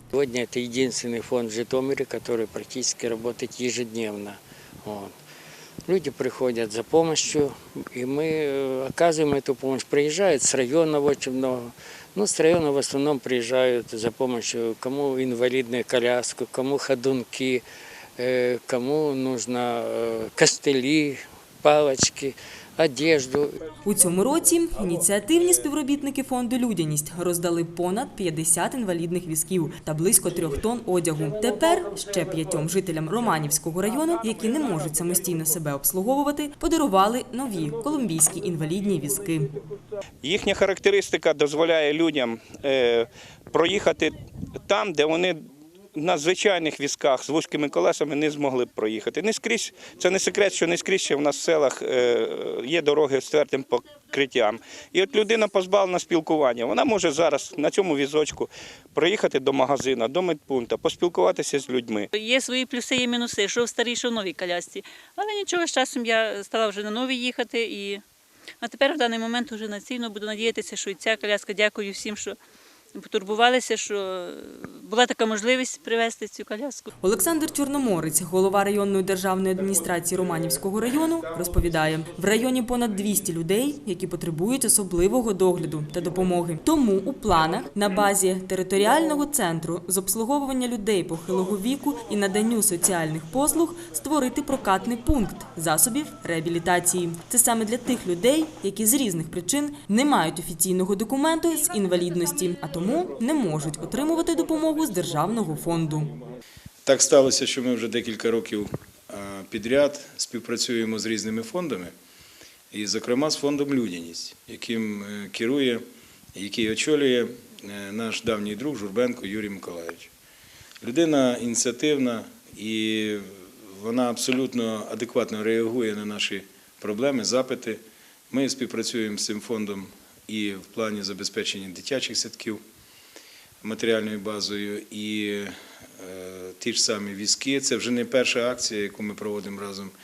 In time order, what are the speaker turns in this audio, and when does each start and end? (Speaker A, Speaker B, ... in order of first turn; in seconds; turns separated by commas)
Speaker A: 0.1-5.1, Speaker A: 5.9-17.6, Speaker A: 18.2-23.6, Speaker B: 23.8-39.5, Speaker C: 40.2-44.1, Speaker C: 44.7-45.4, Speaker C: 45.9-62.1, Speaker D: 62.1-68.0, Speaker D: 68.6-72.4, Speaker D: 73.0-76.9, Speaker B: 77.0-106.1, Speaker E: 106.8-111.9, Speaker E: 112.7-115.8, Speaker E: 116.3-120.1, Speaker E: 120.8-132.6, Speaker E: 133.6-139.9